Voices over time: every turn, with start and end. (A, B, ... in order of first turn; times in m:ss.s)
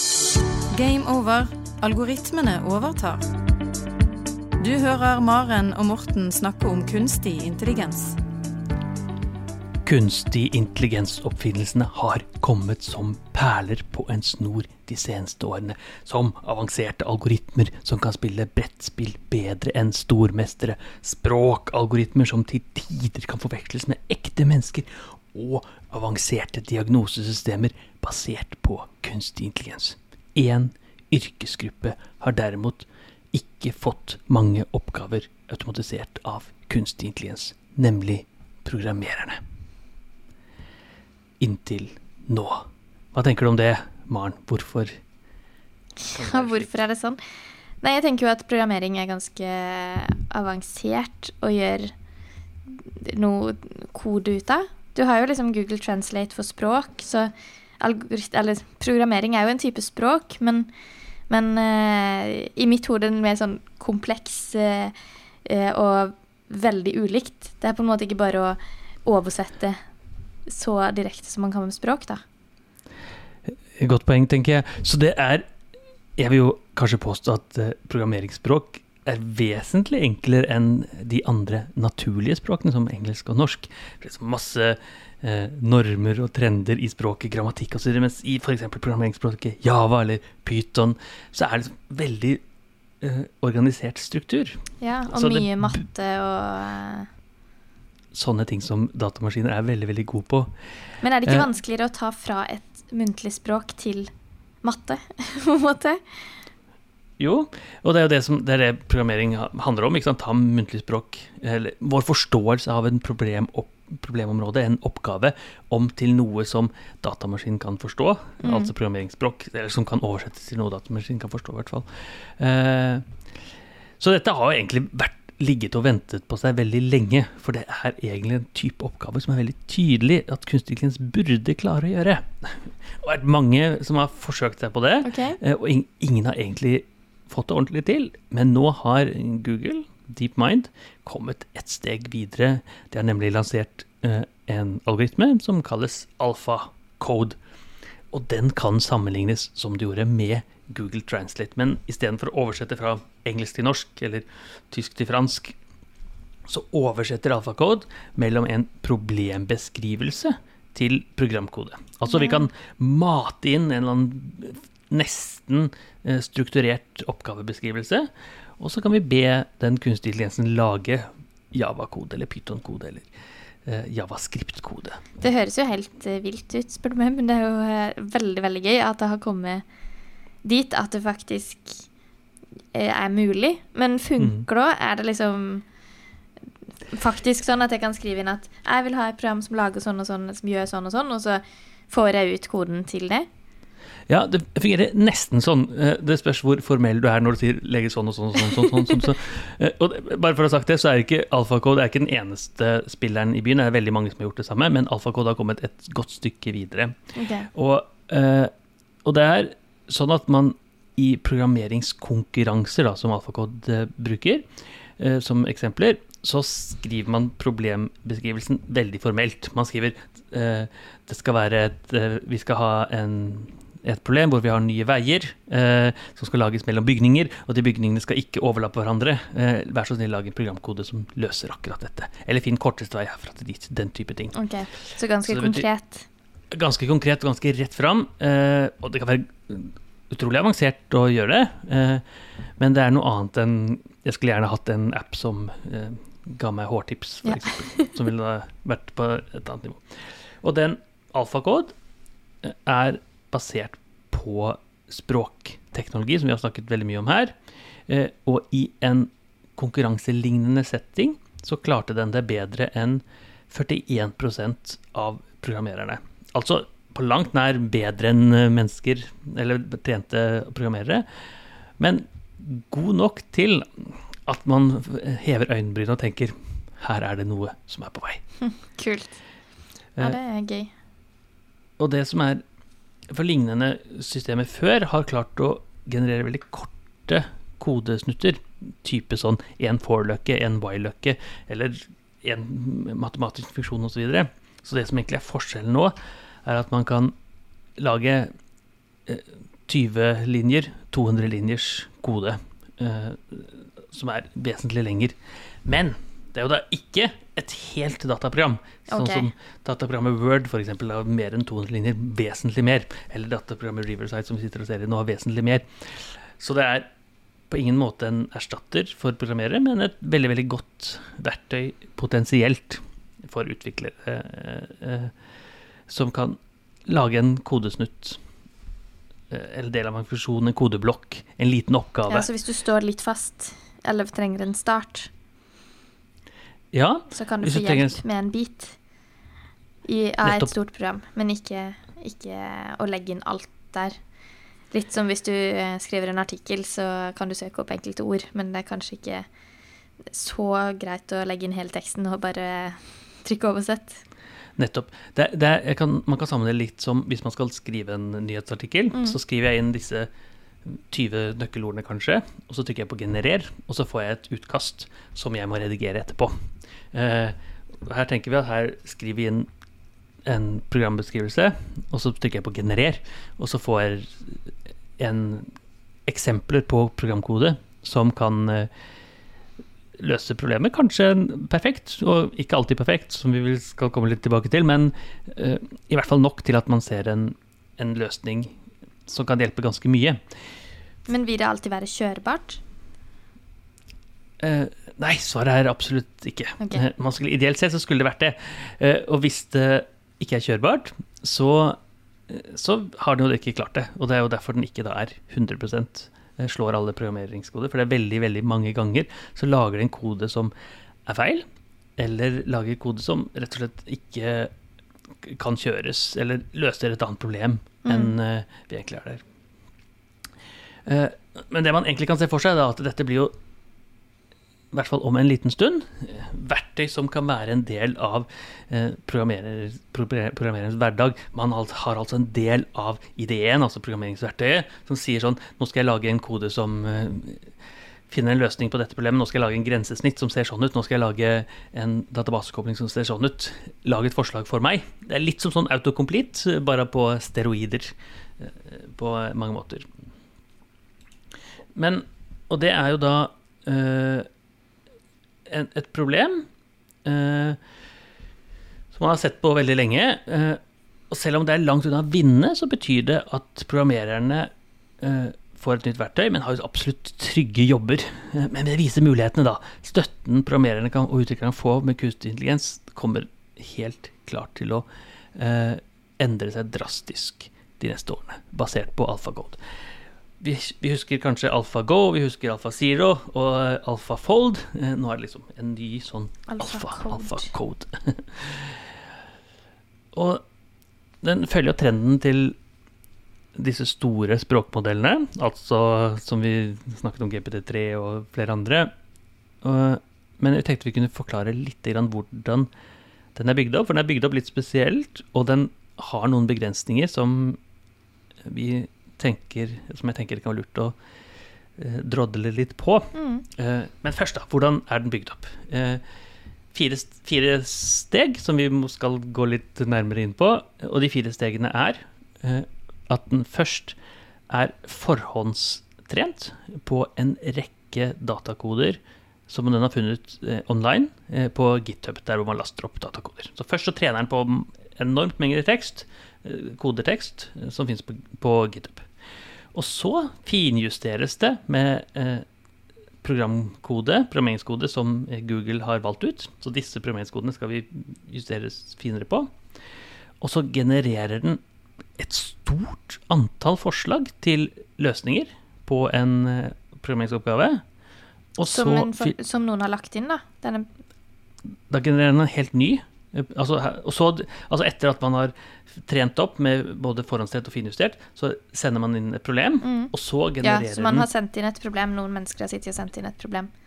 0:00.7-0:03.2 A
0:04.6-0:08.2 A
0:09.8-0:39.4 B
0:41.4-0:45.0 B
0:46.0-0:47.2 C
0:46.1-0:46.8 B
0:47.8-0:51.9 C
0:52.7-1:00.7 C
1:01.3-1:09.8 C
1:10.5-1:12.2 C
1:13.8-1:15.5 B
1:16.2-1:32.4 B
1:33.0-1:35.8 B
1:34.8-1:37.1 C
1:38.1-1:40.5 B
1:41.0-1:44.1 C
1:44.6-1:46.0 C
1:47.2-2:03.0 B
1:58.4-1:58.7 C
2:04.0-2:27.4 B
2:15.0-2:15.4 C
2:28.1-2:35.6 B
2:36.5-2:53.1 B
2:42.0-2:42.5 C
2:53.6-2:55.2 B
2:55.2-2:59.6 C
3:00.4-3:01.9 C
3:02.7-3:05.6 C
3:04.2-3:04.4 B
3:06.9-3:13.3 C
3:14.1-3:27.0 B
3:27.1-3:27.5 C
3:27.5-3:28.5 B
3:29.0-3:34.5 B
3:35.0-3:54.4 B
3:54.3-3:56.1 C
3:55.2-3:55.6 B
3:56.5-4:02.0 B
4:02.6-4:11.7 B
4:07.2-4:07.9 C
4:12.4-4:17.4 B
4:17.9-4:31.0 B
4:31.8-4:38.2 B
4:38.4-4:39.2 C
4:40.0-4:40.7 C
4:41.8-4:42.4 B
4:43.1-4:57.1 B
4:57.8-4:58.3 B
4:59.0-5:16.9 B
5:08.9-5:09.3 C
5:17.5-5:25.1 B
5:25.9-5:28.2 B
5:29.3-5:32.3 B
5:32.1-5:35.1 C
5:36.7-5:38.0 B
5:37.1-5:38.8 C
5:39.8-5:44.0 C
5:40.2-5:40.5 B
5:44.7-5:49.3 C
5:50.1-5:54.0 C
5:54.6-6:00.1 B
5:58.9-5:59.2 C
6:00.6-6:09.5 B
6:10.2-6:15.5 B
6:16.0-6:18.7 B
6:20.0-6:28.6 B
6:29.1-6:30.2 B
6:31.1-6:32.6 C
6:34.4-6:50.5 B
6:36.6-6:36.8 C
6:51.0-6:51.4 B
6:52.0-6:54.5 B
6:55.2-6:59.2 B
6:57.8-6:58.1 C
7:00.8-7:03.3 B
7:04.7-7:17.5 B
7:18.1-7:29.9 B
7:31.7-7:34.3 B
7:35.4-7:36.5 B
7:37.0-7:37.6 B
7:38.9-7:59.6 B
8:00.4-8:08.9 B
8:06.5-8:07.5 C
8:10.1-8:10.4 B
8:11.2-8:12.6 B
8:13.5-8:18.9 B
8:19.6-8:22.7 B
8:23.3-8:27.6 B
8:28.4-8:31.0 B
8:31.8-8:36.0 B
8:33.1-8:33.4 C
8:36.7-8:44.0 B
8:44.5-8:59.1 B
8:59.7-9:02.4 B
9:03.2-9:09.5 B
9:10.4-9:11.6 B
9:12.2-9:17.8 B
9:18.6-9:19.3 B
9:18.6-9:20.9 C
9:21.9-9:31.3 B
9:29.8-9:33.7 C